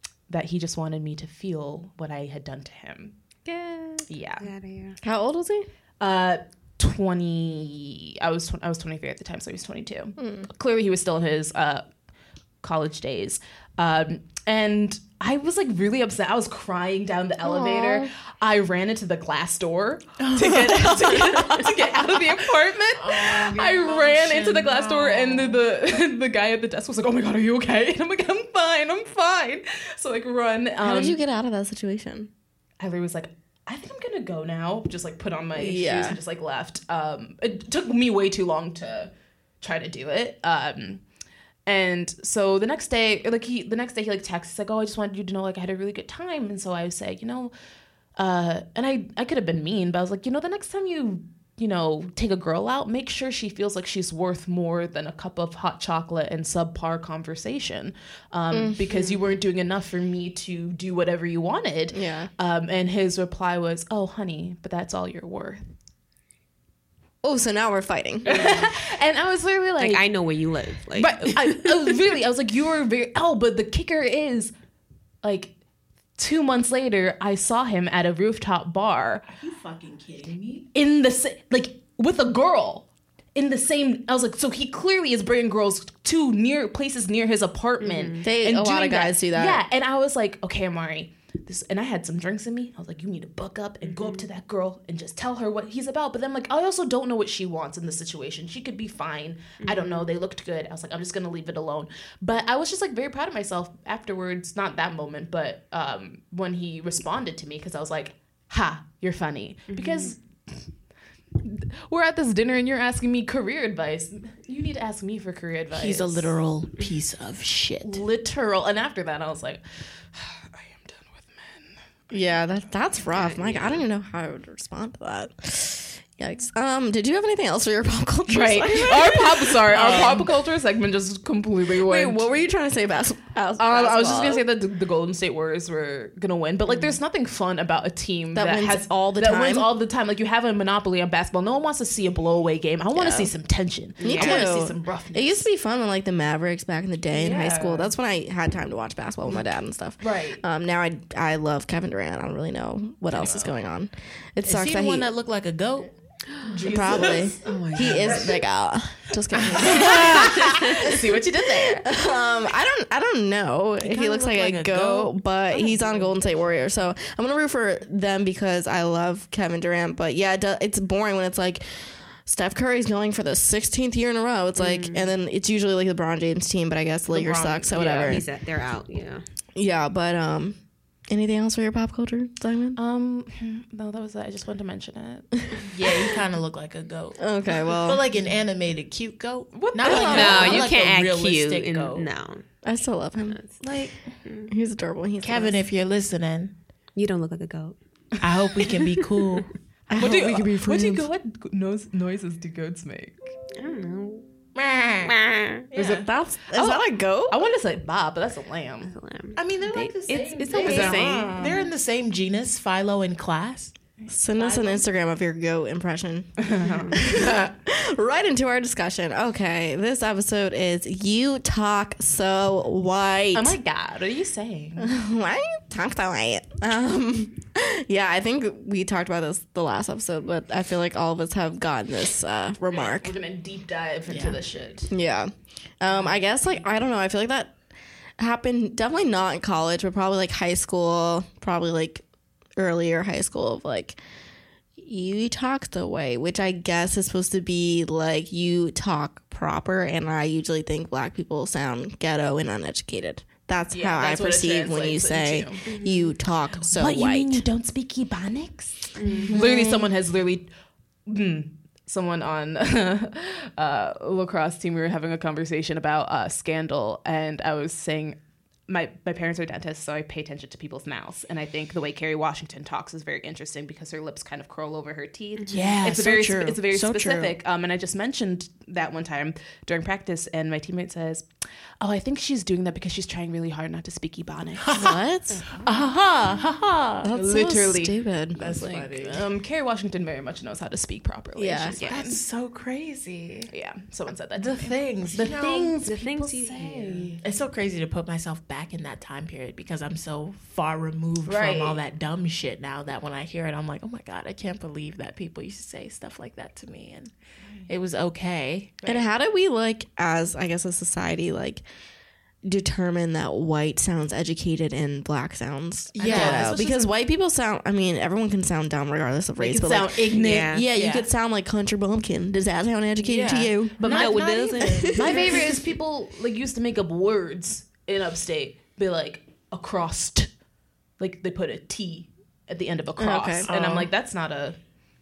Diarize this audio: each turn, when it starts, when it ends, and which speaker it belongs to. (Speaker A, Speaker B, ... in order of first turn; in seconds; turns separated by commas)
Speaker A: 0.3-3.2, Speaker A: 4.1-4.5, Speaker B: 4.4-5.0, Speaker C: 5.0-5.7, Speaker A: 6.0-11.9, Speaker C: 10.2-10.5, Speaker A: 12.6-31.2, Speaker C: 17.4-18.1, Speaker D: 20.2-21.7, Speaker D: 23.0-25.6, Speaker C: 30.8-32.3, Speaker A: 32.8-41.0, Speaker C: 35.6-36.2, Speaker A: 41.6-47.5, Speaker A: 48.1-65.6, Speaker C: 58.5-58.8, Speaker B: 58.9-59.2, Speaker C: 61.9-62.3, Speaker C: 67.2-68.5, Speaker A: 68.2-70.0, Speaker B: 68.3-68.7, Speaker B: 69.8-72.0, Speaker A: 70.9-74.5, Speaker A: 75.2-75.5, Speaker A: 76.2-79.2, Speaker D: 79.3-80.7, Speaker A: 80.7-110.7, Speaker B: 87.8-88.2, Speaker C: 88.2-89.6, Speaker B: 93.8-94.2, Speaker B: 99.6-100.1, Speaker B: 109.7-110.1, Speaker A: 111.4-116.3, Speaker D: 115.7-118.0, Speaker A: 117.8-121.8, Speaker C: 122.1-130.3, Speaker A: 123.1-123.8, Speaker A: 128.3-132.3, Speaker C: 131.8-134.4, Speaker A: 133.6-145.5, Speaker C: 138.3-139.7, Speaker C: 142.9-143.3, Speaker B: 144.0-144.4, Speaker C: 144.0-155.1, Speaker A: 147.1-147.9, Speaker A: 150.0-150.4, Speaker A: 153.1-153.5, Speaker D: 154.4-158.4, Speaker C: 156.6-160.7, Speaker A: 156.6-157.5, Speaker B: 157.4-158.2, Speaker D: 159.3-160.8, Speaker A: 159.5-161.9, Speaker C: 161.8-178.2, Speaker D: 163.8-165.1, Speaker B: 174.6-175.1, Speaker A: 177.2-178.2, Speaker B: 177.2-179.2, Speaker C: 179.6-182.8, Speaker A: 182.8-185.6, Speaker D: 185.7-192.1, Speaker C: 187.2-188.0, Speaker A: 189.5-190.7, Speaker C: 189.8-190.6, Speaker B: 189.9-192.4, Speaker C: 192.6-193.4, Speaker B: 193.3-193.6, Speaker D: 193.6-194.1, Speaker B: 194.2-194.5, Speaker C: 194.5-195.6, Speaker D: 195.2-196.5, Speaker B: 196.9-197.8, Speaker D: 198.2-199.6, Speaker C: 199.9-201.1, Speaker A: 199.9-203.3, Speaker B: 203.6-204.2, Speaker D: 204.5-206.1, Speaker B: 205.1-205.5, Speaker C: 205.8-207.4, Speaker A: 206.5-208.9, Speaker B: 208.8-211.5, Speaker D: 209.3-213.7, Speaker A: 210.5-210.9, Speaker C: 210.5-211.7, Speaker A: 214.0-214.8, Speaker C: 214.1-223.6, Speaker A: 216.4-217.1, Speaker B: 216.6-217.0, Speaker D: 217.1-217.4, Speaker A: 223.3-224.9, Speaker C: 224.8-233.1, Speaker A: 232.7-234.9, Speaker D: 234.1-234.3, Speaker C: 234.9-237.6, Speaker A: 235.9-236.2, Speaker C: 238.2-242.0, Speaker C: 242.6-244.0, Speaker C: 244.8-257.4, Speaker A: 253.7-255.6, Speaker B: 255.6-256.1, Speaker A: 256.7-260.5, Speaker B: 258.9-259.3, Speaker C: 259.3-259.7, Speaker A: 261.1-281.3, Speaker B: 275.4-275.7, Speaker D: 275.5-277.3, Speaker A: 281.8-284.9, Speaker D: 284.6-285.0, Speaker C: 284.8-285.4, Speaker B: 285.3-285.7, Speaker D: 285.6-287.1, Speaker C: 287.0-289.0, Speaker A: 287.1-292.2, Speaker D: 288.4-289.2, Speaker C: 291.4-291.8, Speaker B: 291.7-292.0, Speaker D: 291.9-293.5, Speaker A: 293.5-297.2, Speaker D: 294.4-296.0, Speaker B: 295.8-297.1, Speaker D: 297.2-307.1, Speaker A: 301.2-301.8, Speaker D: 307.7-309.1, Speaker C: 308.8-311.6, Speaker C: 312.4-323.8, Speaker D: 315.9-316.6, Speaker A: 316.0-316.9, Speaker A: 319.4-320.7, Speaker B: 320.1-320.6, Speaker D: 320.6-321.1, Speaker D: 323.1-325.5, Speaker A: 323.8-324.2, Speaker B: 323.8-325.3, Speaker C: 324.6-325.3, Speaker A: 324.9-330.3, Speaker A: 331.0-334.6, Speaker C: 333.0-333.5, Speaker D: 333.4-333.9